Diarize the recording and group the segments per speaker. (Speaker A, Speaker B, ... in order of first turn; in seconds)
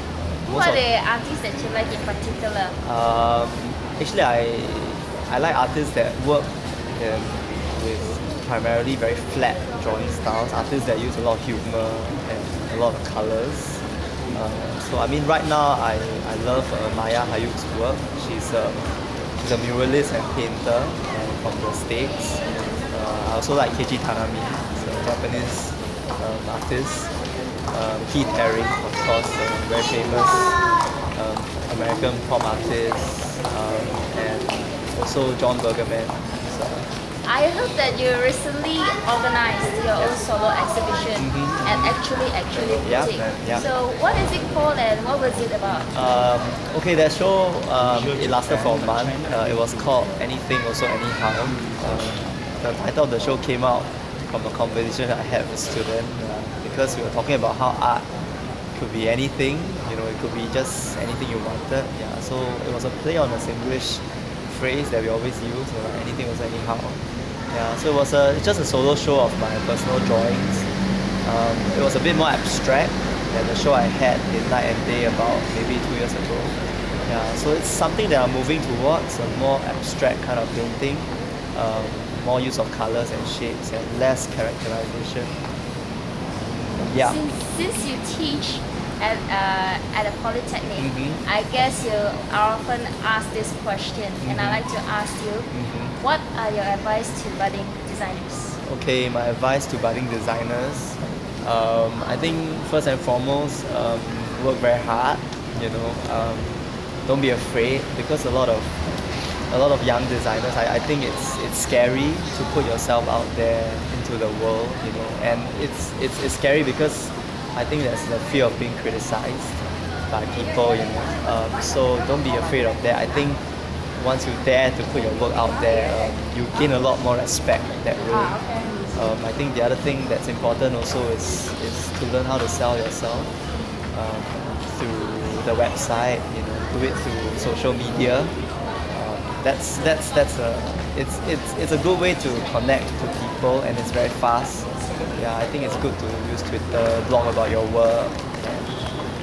Speaker A: 0.3-0.8, 2.8-27.1, 27.7-30.6, 31.1-36.9, 41.1-41.9, 42.5-43.7, 45.9-58.0, 58.7-70.7, 71.2-85.4, 86.8-87.2, 90.8-91.2, 94.2-94.6, 95.5-95.9, 98.6-108.7, 109.3-133.3, 133.9-148.9
Speaker B: 0.5-2.8, 37.2-46.1, 86.9-98.6